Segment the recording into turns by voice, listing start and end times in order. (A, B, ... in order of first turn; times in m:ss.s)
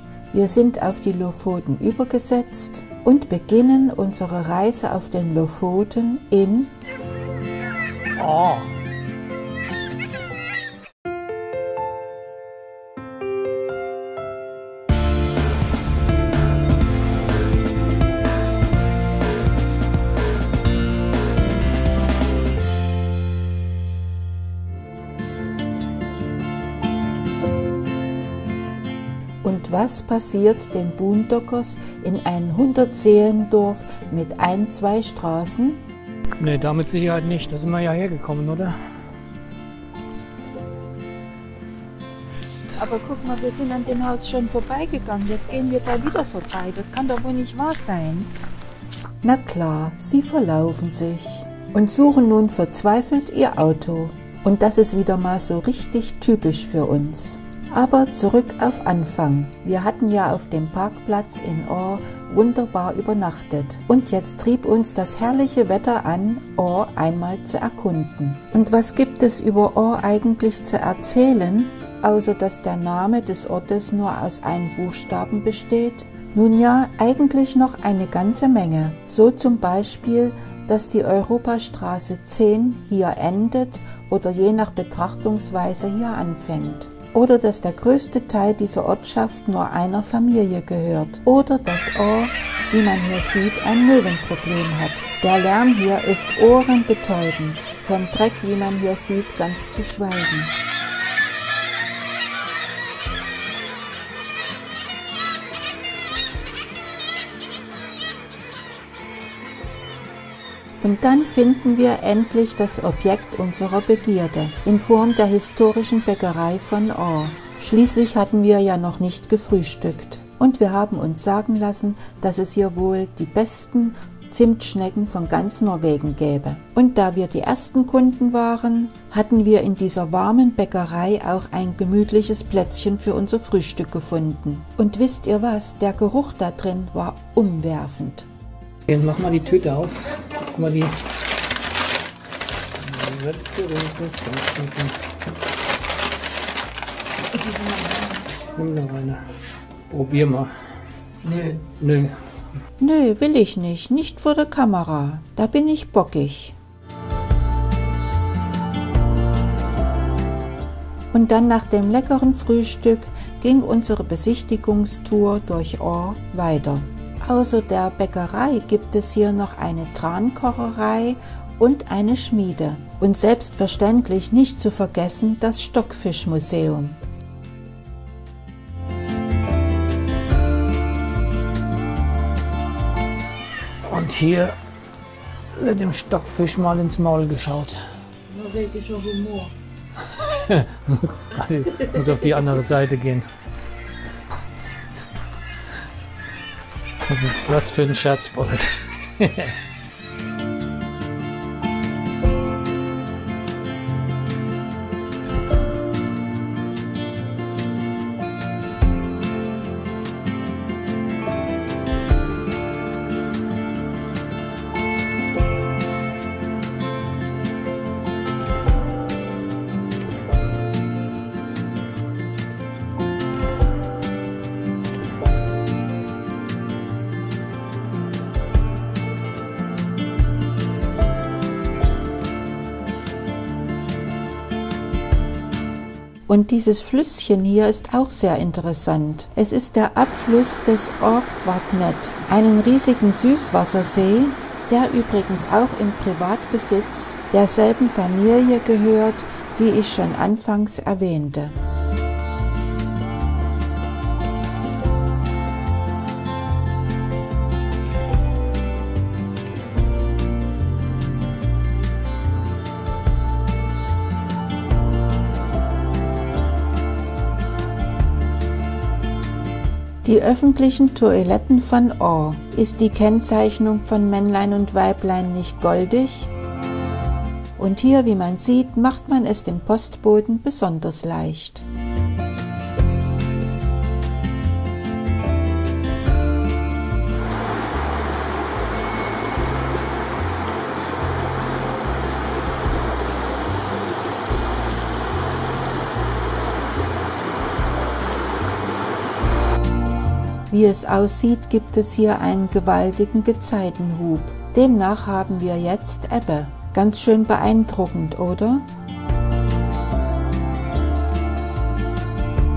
0:00.3-0:06.7 A
0:08.2-0:08.7 B
0:29.4-0:35.8 A
0:36.4-0:38.8 B
0:42.7-0:48.3 C
0:49.2-1:40.5 A
1:50.8-2:18.3 A
2:18.9-2:21.0 B
2:22.8-2:25.0 B
2:28.5-2:29.2 B
2:29.9-2:30.5 B
2:31.2-2:32.2 B
2:32.8-2:36.6 A
2:41.1-2:57.0 A
3:03.8-3:04.6 B
3:05.5-3:07.8 B
3:08.3-3:09.5 C
3:10.0-3:13.3 B
3:17.0-3:19.6 B
3:56.3-4:11.5 A
4:30.0-4:36.3 A
4:37.6-4:41.6 A
5:00.5-5:08.7 A